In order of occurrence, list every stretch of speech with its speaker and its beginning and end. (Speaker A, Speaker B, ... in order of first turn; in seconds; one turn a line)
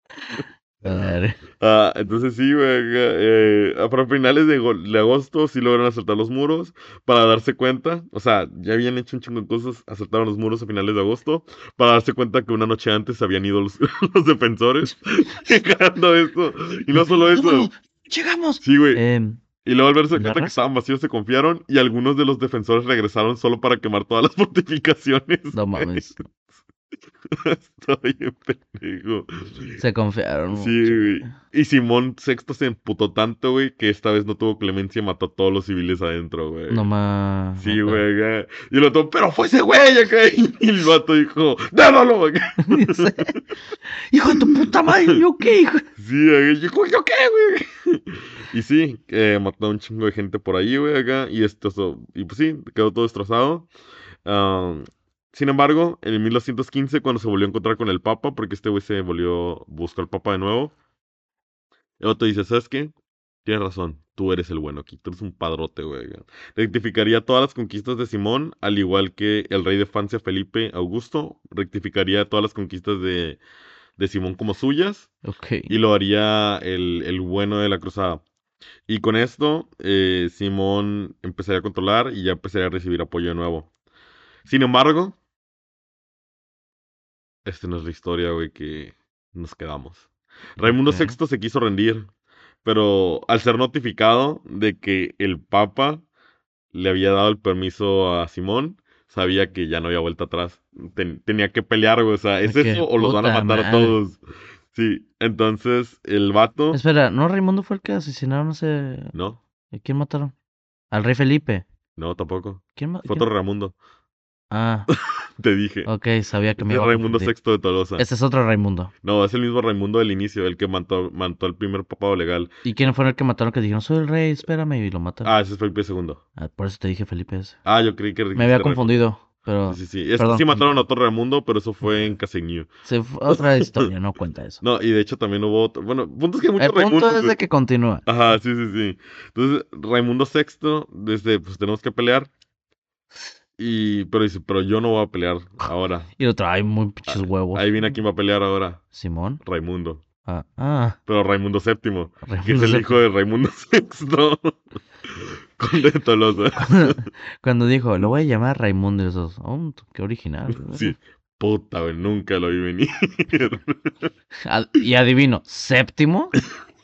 Speaker A: 0.3-1.4
Speaker B: 1.6-17.7
Speaker A: 17.0-19.4
Speaker B: 18.6-19.0
Speaker B: 19.6-26.1
Speaker A: 20.1-20.5
Speaker A: 25.5-26.2
Speaker B: 27.3-29.8
Speaker A: 29.8-31.3
Speaker B: 30.5-36.8
Speaker A: 36.7-38.0
Speaker B: 37.6-43.1
Speaker A: 42.6-43.4
Speaker A: 44.1-45.9
Speaker B: 46.0-53.7
Speaker B: 54.2-60.7
Speaker B: 62.0-62.9
Speaker B: 63.4-73.4
Speaker B: 74.0-75.1
Speaker A: 75.2-75.7
Speaker B: 75.7-78.2
Speaker B: 78.9-83.7
Speaker B: 84.5-85.2
Speaker B: 87.4-90.0
Speaker B: 90.6-92.1
Speaker A: 90.6-91.2
Speaker B: 92.6-96.0
Speaker B: 96.7-104.2
Speaker A: 102.4-104.0
Speaker B: 104.7-106.8
Speaker A: 106.7-109.1
Speaker B: 109.1-109.4
Speaker A: 109.7-110.3
Speaker A: 110.9-111.7
Speaker B: 112.0-113.7
Speaker A: 112.8-113.3
Speaker A: 114.5-114.9
Speaker B: 114.9-115.9
Speaker A: 115.8-117.3
Speaker B: 116.6-118.0
Speaker A: 118.0-118.9
Speaker B: 119.0-122.5
Speaker A: 122.6-125.3
Speaker B: 125.2-126.2
Speaker A: 126.4-127.6
Speaker B: 127.6-128.9
Speaker A: 128.3-130.7
Speaker B: 129.7-132.7
Speaker A: 132.8-134.6
Speaker B: 133.3-133.9
Speaker B: 134.6-137.3
Speaker A: 136.6-138.0
Speaker B: 138.1-142.3
Speaker B: 143.6-146.1
Speaker A: 146.2-147.9
Speaker B: 147.1-148.8
Speaker A: 148.9-149.4
Speaker B: 149.4-150.0
Speaker A: 150.2-151.0
Speaker B: 151.1-154.6
Speaker A: 152.2-153.0
Speaker B: 155.1-157.0
Speaker A: 156.6-160.9
Speaker B: 160.6-164.1
Speaker A: 164.4-166.3